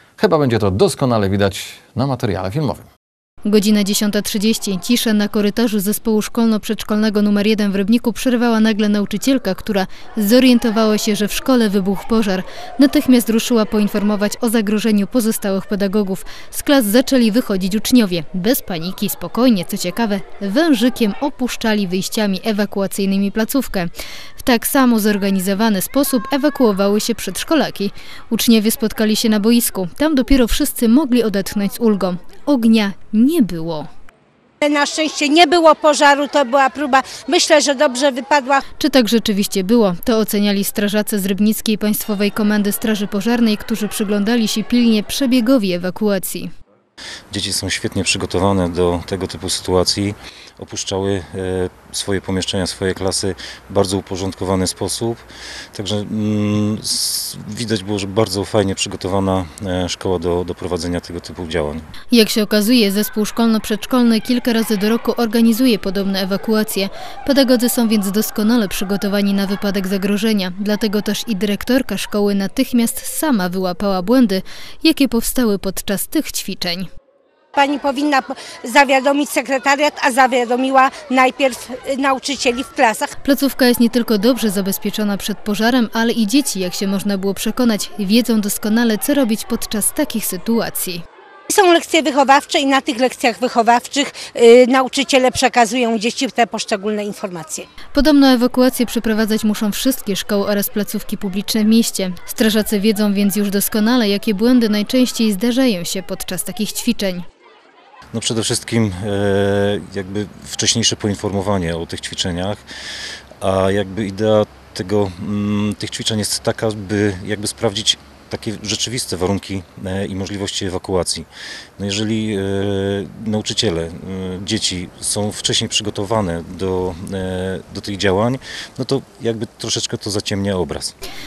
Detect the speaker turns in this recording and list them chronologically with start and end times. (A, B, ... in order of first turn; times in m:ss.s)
0:00.2-0:02.9 A
0:03.4-0:33.9 B
0:34.6-0:38.6 C
0:38.8-0:46.5 B
0:47.3-0:55.2 D
0:55.7-1:01.9 D
1:02.1-1:16.9 B
1:17.6-1:23.1 C
1:23.2-1:31.0 B
1:31.5-1:37.7 C
1:37.9-1:47.2 B
1:48.1-1:52.6 D
1:53.4-2:10.9 D